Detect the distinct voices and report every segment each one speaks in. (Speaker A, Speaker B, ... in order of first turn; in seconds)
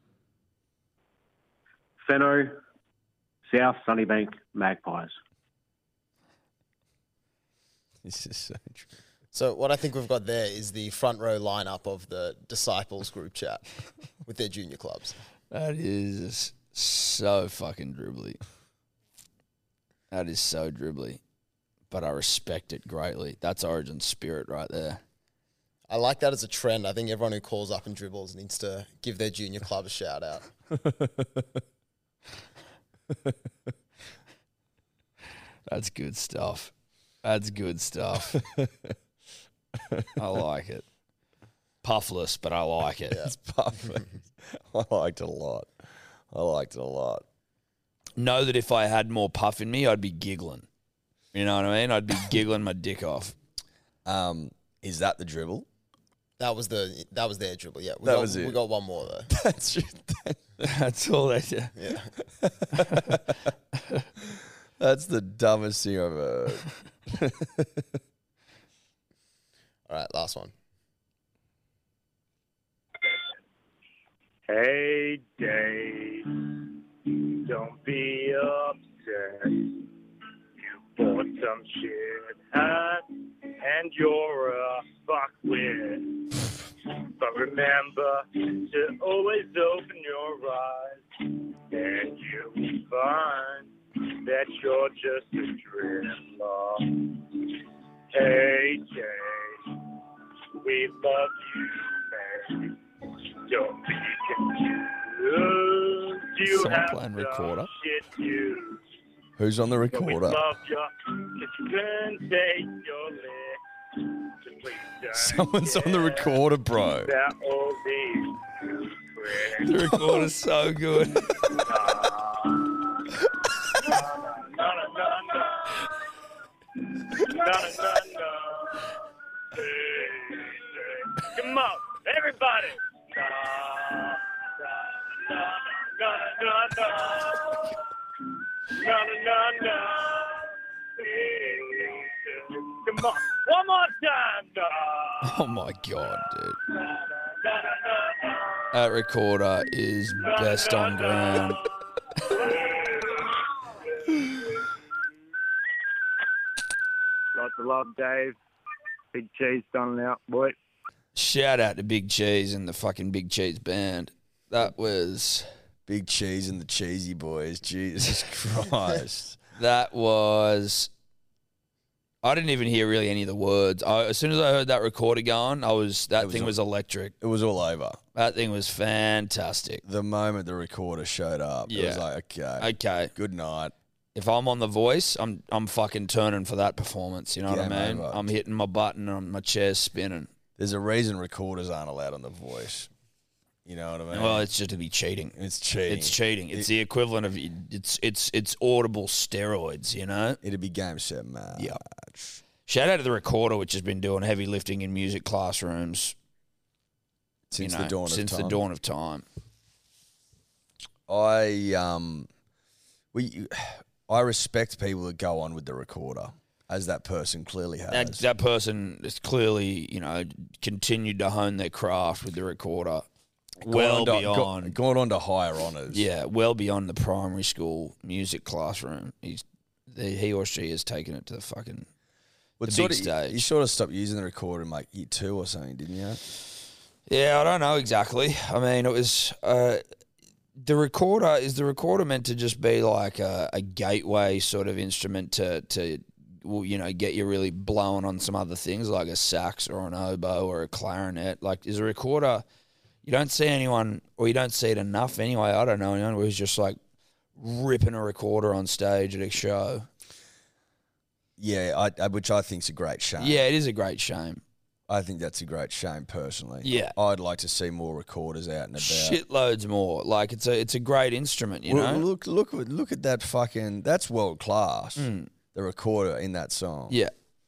Speaker A: 2.0-2.6, 3.5-5.2
Speaker B: 8.0-8.9, 30.8-31.4, 38.3-38.9, 39.8-40.1, 43.1-45.7, 46.3-47.2, 54.0-55.7, 58.0-58.6, 59.3-60.4, 62.4-63.2, 64.8-67.9, 109.4-110.4, 115.2-117.1, 165.9-169.4, 176.2-176.6, 177.2-178.0, 179.8-183.7, 187.4-188.3, 190.6-192.9, 193.7-194.5, 195.3-196.7, 200.4-202.4, 207.5-208.6, 211.1-212.3, 213.1-218.2, 223.6-226.1, 232.6-236.2, 261.4-263.4, 264.9-269.2, 271.7-277.0
Speaker C: 9.3-13.6, 14.2-15.2, 25.9-30.5, 56.4-59.3, 61.8-62.1, 69.9-70.5
Speaker D: 15.5-18.4, 20.1-21.2, 21.9-25.0, 35.7-36.7, 37.2-38.4, 40.2-40.9, 41.8-43.3, 48.2-50.7, 51.3-53.4, 60.6-61.7, 62.8-63.2, 106.5-107.7, 119.6-121.5, 145.2-146.6, 148.7-151.6, 161.2-165.5, 169.6-170.9, 172.2-177.2, 178.2-179.8, 181.7-182.1, 182.6-183.1, 184.2-190.3, 194.1-195.3, 195.9-200.4, 202.7-206.2, 207.6-209.2, 217.9-223.1, 223.6-224.8, 225.9-231.9, 232.7-233.4, 237.1-239.8, 240.6-252.4, 253.0-256.8, 257.4-259.9, 263.2-264.4, 266.6-267.0, 268.8-272.1, 275.0-275.3
Speaker E: 74.5-79.9, 80.6-91.0, 91.7-97.6, 98.1-99.8, 100.6-102.8, 103.5-108.8, 109.9-120.2, 121.4-126.0, 127.0-128.9, 129.5-137.8, 138.7-145.4, 146.7-148.7, 150.2-154.7, 157.3-158.4, 159.1-160.6